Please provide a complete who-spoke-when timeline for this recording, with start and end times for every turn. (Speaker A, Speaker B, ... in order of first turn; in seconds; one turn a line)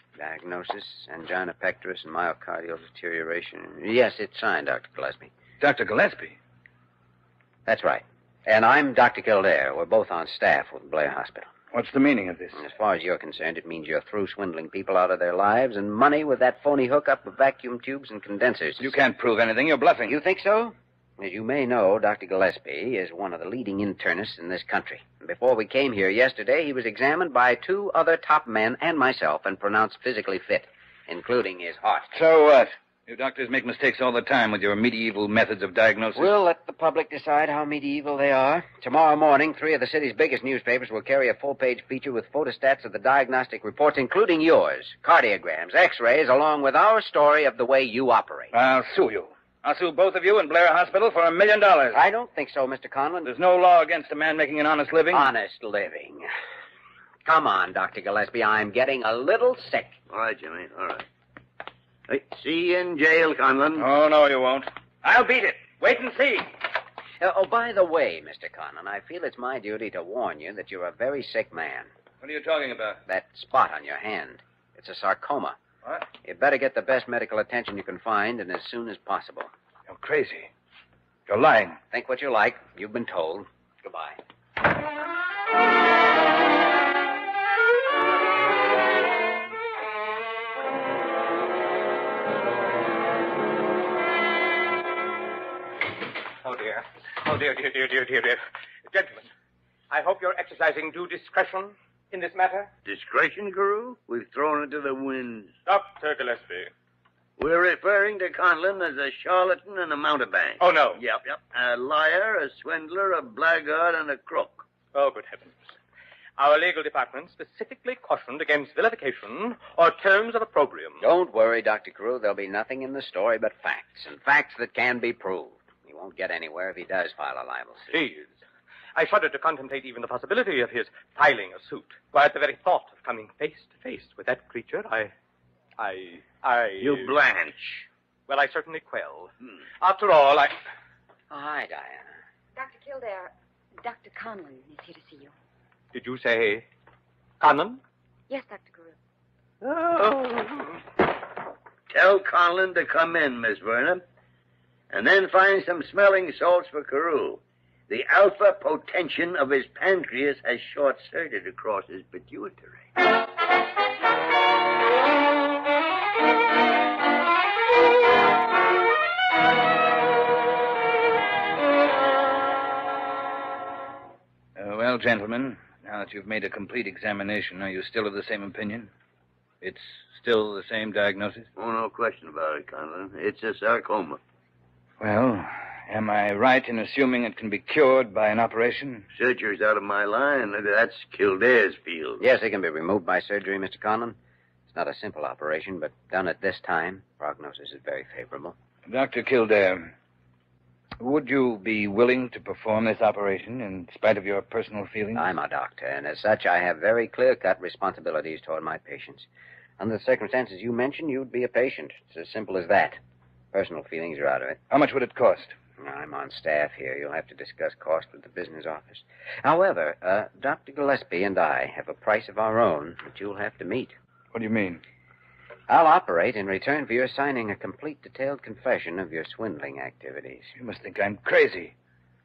Speaker A: 0.1-5.3
Speaker B: 5.6-6.3
Speaker A: 7.7-11.5
Speaker B: 11.7-12.6
Speaker A: 12.6-18.9
Speaker B: 18.8-20.1
Speaker A: 20.1-32.1
Speaker B: 32.1-36.3
Speaker A: 36.1-48.5
Speaker B: 48.5-52.0
Speaker A: 51.9-53.3
Speaker B: 53.2-55.3
Speaker A: 55.1-56.3
Speaker A: 57.2-60.0
Speaker C: 60.1-61.1
Speaker C: 62.1-63.9
Speaker B: 63.8-66.5
Speaker A: 67.2-71.9
Speaker B: 72.2-73.0
Speaker A: 73.1-75.6
Speaker A: 76.2-79.5
Speaker B: 79.9-80.5
Speaker B: 81.3-81.8
Speaker A: 81.9-84.2
Speaker D: 96.4-99.3
Speaker D: 99.9-102.7
Speaker C: 102.8-105.5
Speaker D: 105.7-106.7
Speaker C: 107.4-114.7
Speaker D: 110.6-111.0
Speaker D: 114.9-115.6
Speaker D: 116.4-121.0
Speaker A: 121.0-127.9
Speaker D: 127.9-128.4
Speaker D: 128.9-135.1
Speaker D: 135.8-137.2
Speaker C: 136.8-137.9
Speaker D: 138.3-140.6
Speaker A: 141.3-142.1
Speaker E: 142.6-145.3
Speaker D: 145.9-146.7
Speaker D: 147.4-147.8
Speaker E: 148.3-149.0
Speaker D: 149.6-150.7
Speaker C: 151.9-154.0
Speaker C: 154.9-162.8
Speaker B: 174.6-178.9
Speaker B: 179.6-181.5
Speaker C: 181.6-184.2
Speaker B: 185.0-189.1
Speaker C: 189.1-192.2
Speaker A: 192.2-194.2
Speaker A: 194.7-198.6
Speaker B: 198.8-199.9
Speaker B: 201.0-205.3
Speaker A: 205.2-209.3
Speaker A: 209.8-213.0
Speaker A: 213.5-214.6
Speaker B: 214.7-215.5
Speaker A: 215.8-223.9
Speaker B: 224.3-224.8
Speaker A: 225.7-230.5
Speaker B: 230.6-231.7